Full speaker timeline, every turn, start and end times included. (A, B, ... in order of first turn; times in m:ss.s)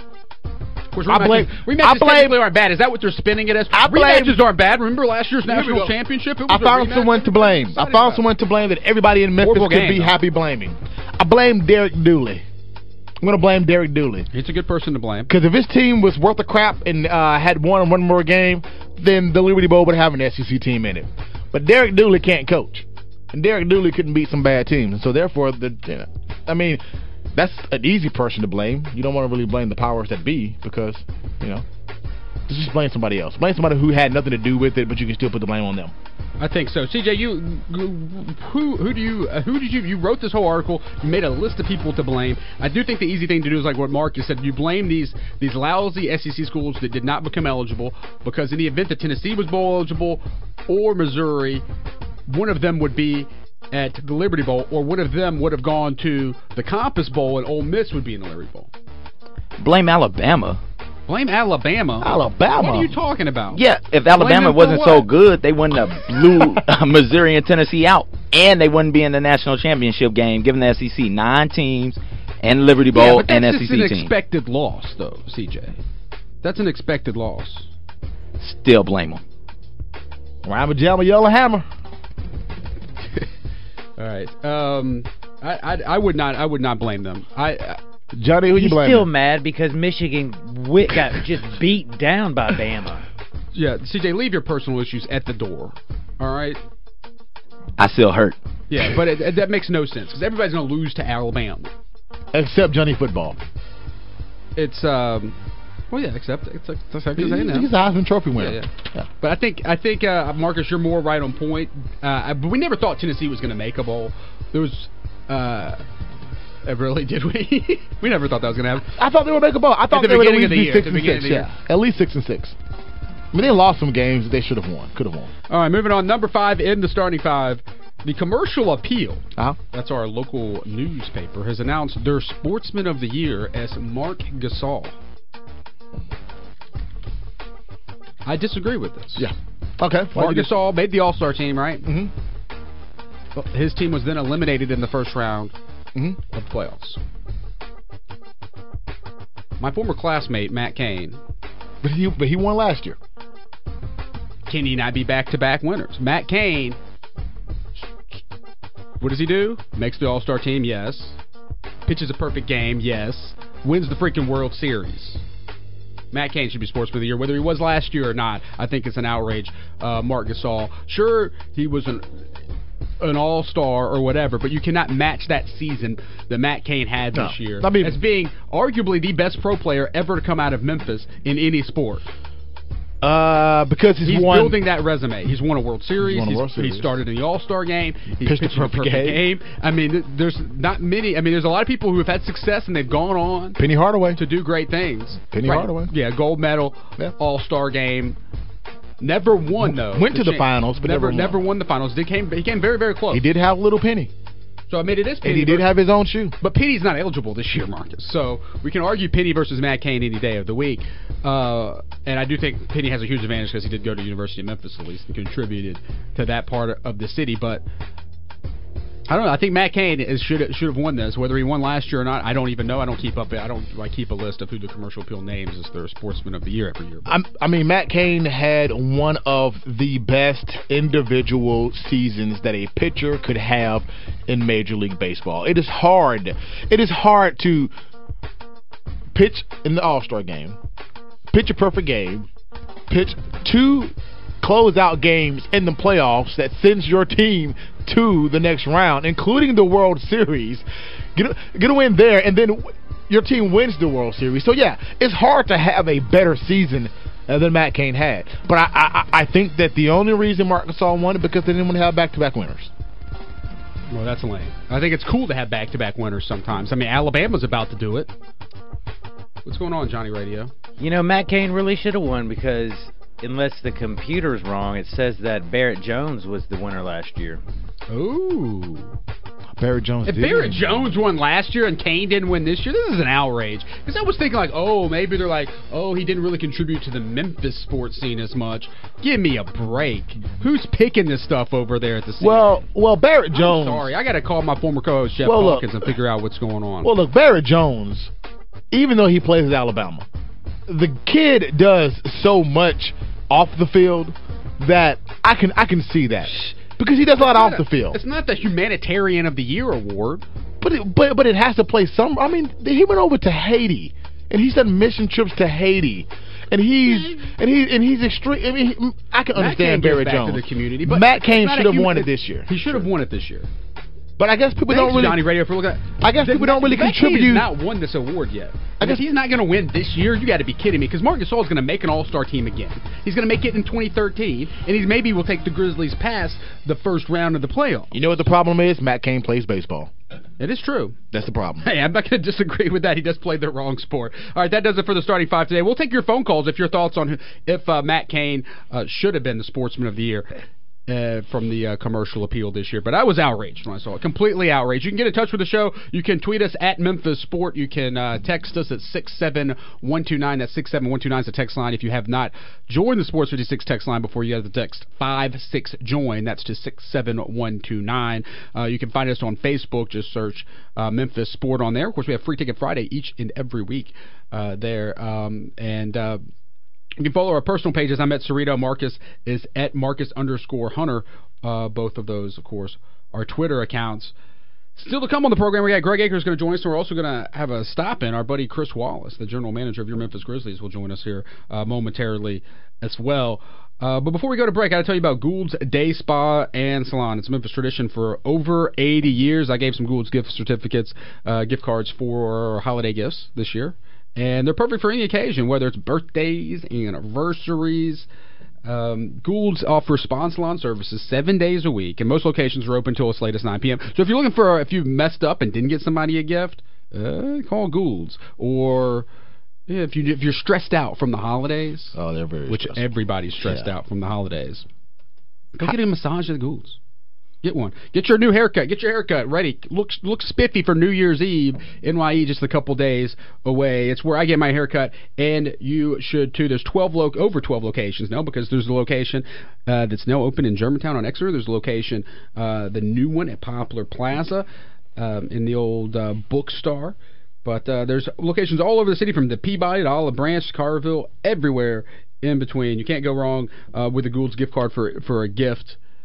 0:00.9-0:08.2 A
0:01.1-0:02.4 B
0:03.7-0:04.4 B
0:05.5-0:06.0 B
0:06.5-0:12.4 B
0:09.4-0:10.2 A
0:13.2-0:14.3 B
0:14.3-0:15.3 A
0:15.3-0:26.8 B
0:27.3-0:31.6 B
0:32.5-0:35.9 B
0:36.4-0:51.6 A
0:52.3-0:58.7 A
0:59.6-1:00.6 C
1:01.1-1:03.6 A
1:02.0-1:03.0 B
1:03.5-1:14.1 C
1:04.1-1:05.1 A
1:06.1-1:06.7 B
1:12.9-1:15.8 A
1:16.4-1:17.7 A
1:18.4-1:19.2 C
1:20.4-1:21.6 B
1:24.0-1:27.8 A
1:28.1-1:29.1 B
1:28.5-1:33.0 D
1:33.5-1:36.6 A
1:37.8-1:38.4 C
1:38.7-1:41.7 A
1:42.3-1:43.4 B
1:44.6-1:45.4 A
1:45.9-1:47.7 A
1:47.2-1:49.1 B
1:48.4-1:48.7 A
1:49.2-1:55.8 A
1:56.6-1:58.9 A
1:58.9-2:02.6 B
1:59.9-2:01.5 A
2:03.3-2:05.3 B
2:05.5-2:15.0 A
2:18.2-2:19.3 A
2:19.2-2:20.5 B
2:20.1-2:21.9 A
2:21.8-2:22.1 B
2:23.3-2:25.5 A
2:26.3-2:27.0 A
2:29.6-2:31.2 A
2:31.8-2:33.0 B
2:34.5-2:36.8 A
2:39.0-2:41.2 A
2:41.9-2:45.2 A
2:46.1-2:52.0 A
2:53.0-3:02.1 A
2:57.1-2:58.0 B
3:03.0-3:04.6 B
3:04.0-3:13.6 A
3:06.0-3:07.0 B
3:08.2-3:09.2 B
3:13.6-3:14.2 B
3:14.2-3:18.2 A
3:15.2-3:15.9 B
3:19.0-3:23.2 A
3:19.6-3:21.4 B
3:23.1-3:24.1 B
3:24.7-3:25.7 A
3:25.2-3:26.3 B
3:26.4-3:37.6 A
3:39.1-3:47.1 A
3:47.0-3:57.7 B
3:59.1-4:00.6 B
4:01.3-4:02.3 B
4:02.9-4:22.7 B
4:23.9-4:28.1 A
4:29.4-4:30.5 A
4:30.8-4:37.4 D
4:37.9-4:39.0 A
4:39.6-4:40.7 B
4:40.0-4:52.6 A
4:52.2-4:53.9 B
4:53.3-4:56.9 A
4:55.2-4:55.9 B
4:56.8-4:58.1 B
4:58.7-5:00.0 B
5:00.7-5:08.0 B
5:07.2-5:10.2 A
5:10.6-5:22.8 B
5:19.3-5:23.5 A
5:24.2-5:25.3 B
5:24.7-5:37.9 A
5:26.0-5:27.5 B
5:37.9-5:39.9 B
5:40.4-5:41.0 A
5:41.1-5:41.7 B
5:41.6-5:50.3 A
5:50.9-6:16.2 A
6:17.0-6:24.1 A
6:24.8-6:48.1 A
6:48.6-6:59.1 A
6:59.7-7:02.0 A
7:01.9-7:02.9 B
7:02.5-7:04.7 A
7:03.4-7:03.7 B
7:05.5-7:06.8 A
7:07.4-7:24.4 A
7:25.0-7:35.8 A